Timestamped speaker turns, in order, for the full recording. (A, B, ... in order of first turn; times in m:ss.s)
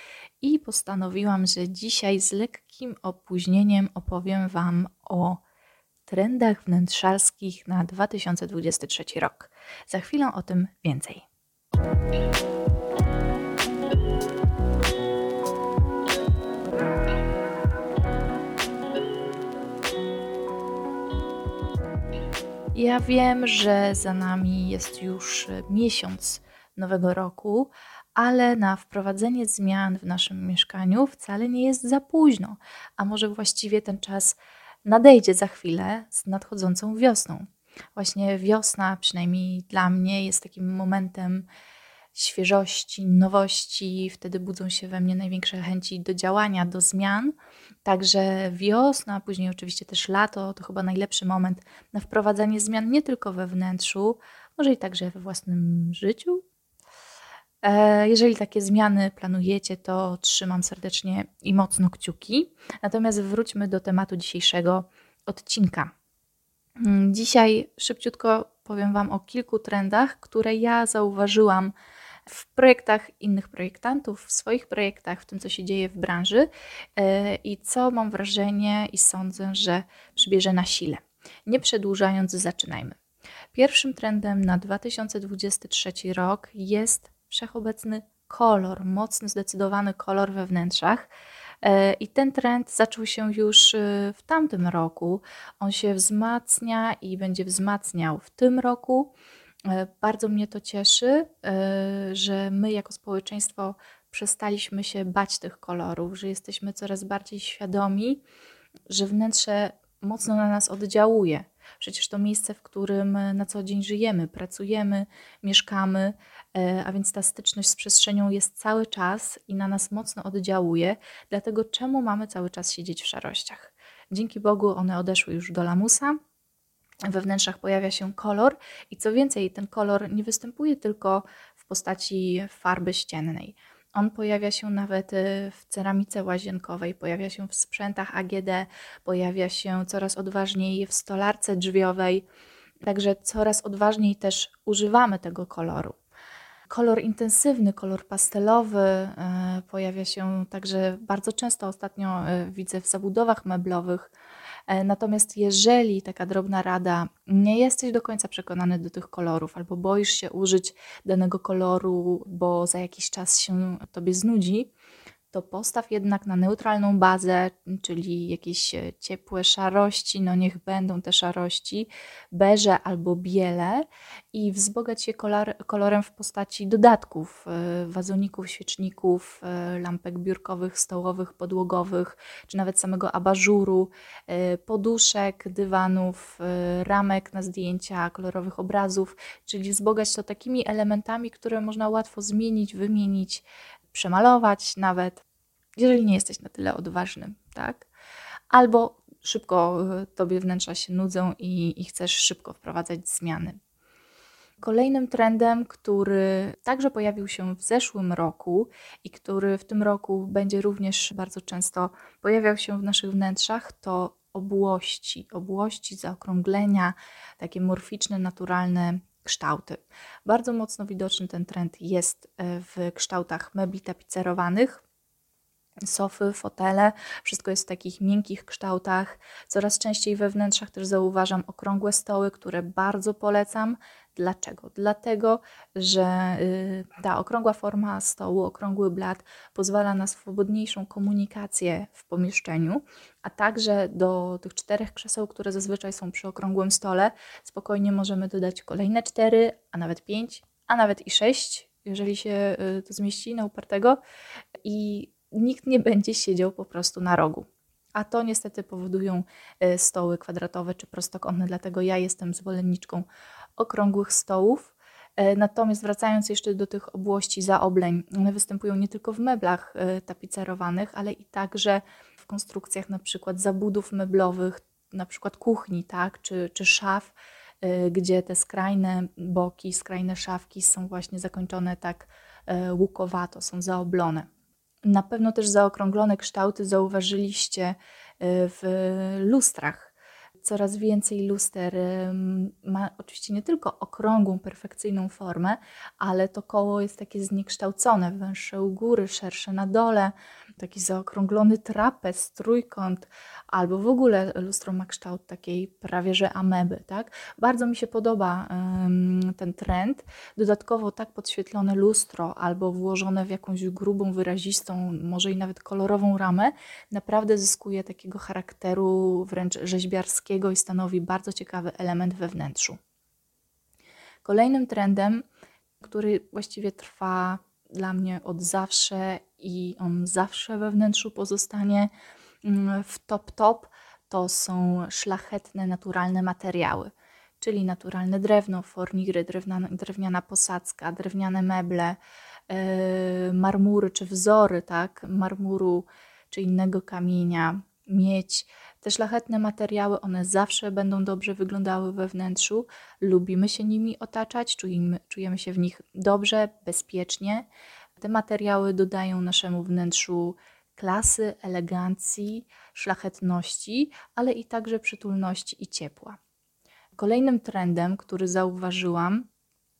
0:00.4-0:05.4 A
0:06.1-0:11.2 A
0:22.7-0:41.5 A
0:42.1-0:56.4 A
0:57.6-1:05.9 A
1:06.8-1:11.7 A
1:12.3-1:23.0 A
1:23.5-1:31.1 A
1:31.6-1:39.1 A
1:39.6-1:48.2 A
1:48.9-2:06.2 A
2:07.1-2:22.2 A
2:22.8-2:26.0 A
2:26.7-2:34.1 A
2:34.7-2:44.7 A
2:45.3-3:15.2 A
3:15.8-3:17.9 A
3:18.5-3:23.6 A
3:24.6-3:44.8 A
3:45.9-4:14.0 A
4:14.6-4:23.1 A
4:23.6-4:44.3 A
4:44.8-5:22.8 A
5:24.2-5:25.2 A
5:25.8-5:31.9 A
5:32.4-5:57.5 A
5:58.0-6:06.2 A
6:07.0-6:09.3 A